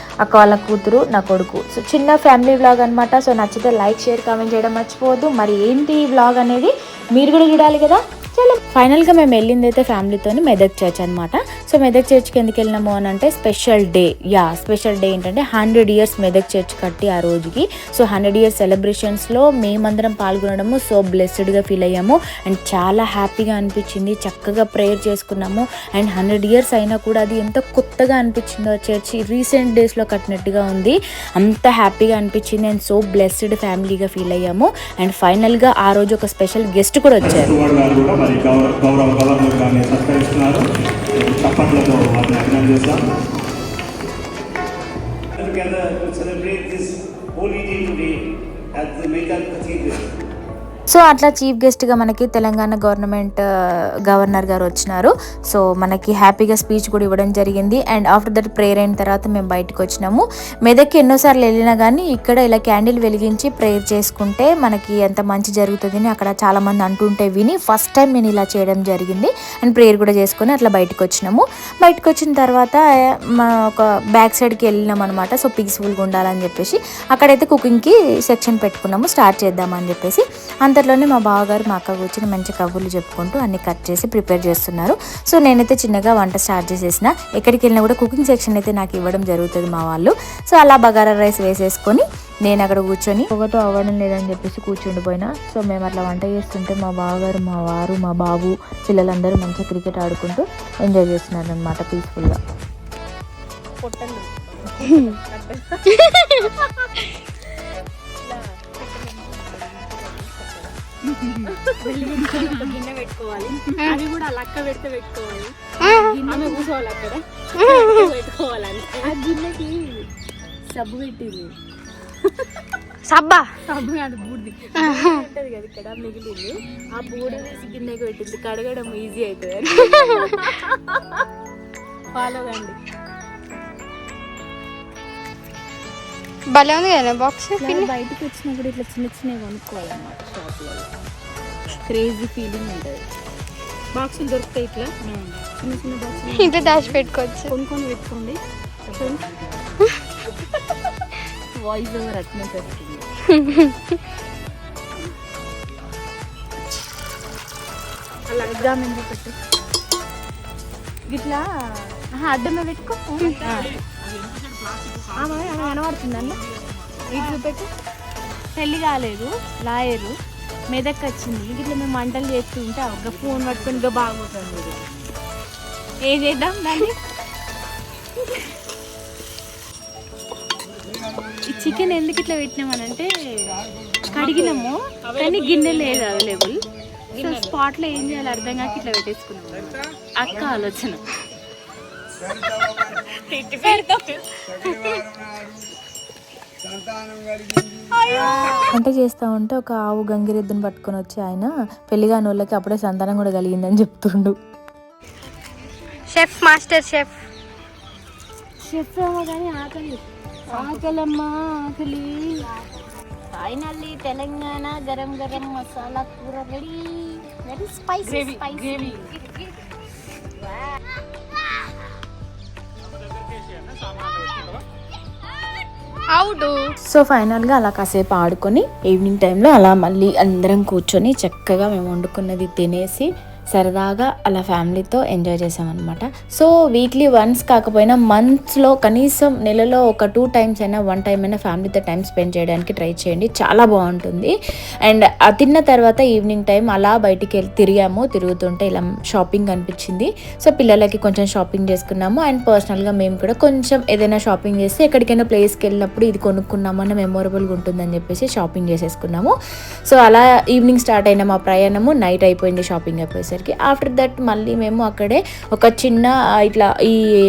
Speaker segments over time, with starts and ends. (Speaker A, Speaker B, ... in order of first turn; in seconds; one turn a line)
Speaker A: 0.2-37.6
Speaker B: 37.2-43.0
Speaker C: 45.4-48.2
Speaker C: 48.8-50.1
Speaker A: 50.9-53.4
Speaker A: 54.1-72.8
Speaker A: 73.4-102.4
Speaker D: 103.8-105.8
Speaker D: 108.2-110.8
Speaker D: 111.5-120.0
Speaker E: 115.8-116.2
Speaker E: 117.5-118.1
Speaker D: 120.7-121.5
Speaker E: 123.1-123.5
Speaker D: 123.7-130.6
Speaker E: 124.8-125.3
Speaker D: 132.2-132.8
Speaker E: 136.5-137.9
Speaker D: 137.9-140.9
Speaker D: 141.9-143.0
Speaker D: 143.9-148.4
Speaker E: 146.3-147.5
Speaker D: 148.9-149.2
Speaker D: 151.6-153.1
Speaker D: 158.3-159.3
Speaker D: 161.1-163.8
Speaker D: 165.1-166.4
Speaker D: 167.1-167.7
Speaker D: 168.7-170.1
Speaker D: 170.7-174.8
Speaker D: 176.1-176.9
Speaker A: 181.5-183.1
Speaker A: 184.1-186.5
Speaker D: 185.3-186.3
Speaker A: 187.2-191.0
Speaker D: 193.4-194.0
Speaker A: 198.6-204.3
Speaker E: 206.1-207.1
Speaker D: 208.7-212.5
Speaker D: 213.3-219.2
Speaker E: 226.2-226.6
Speaker A: 226.9-244.3
Speaker A: 244.8-259.3
Speaker A: 259.9-267.0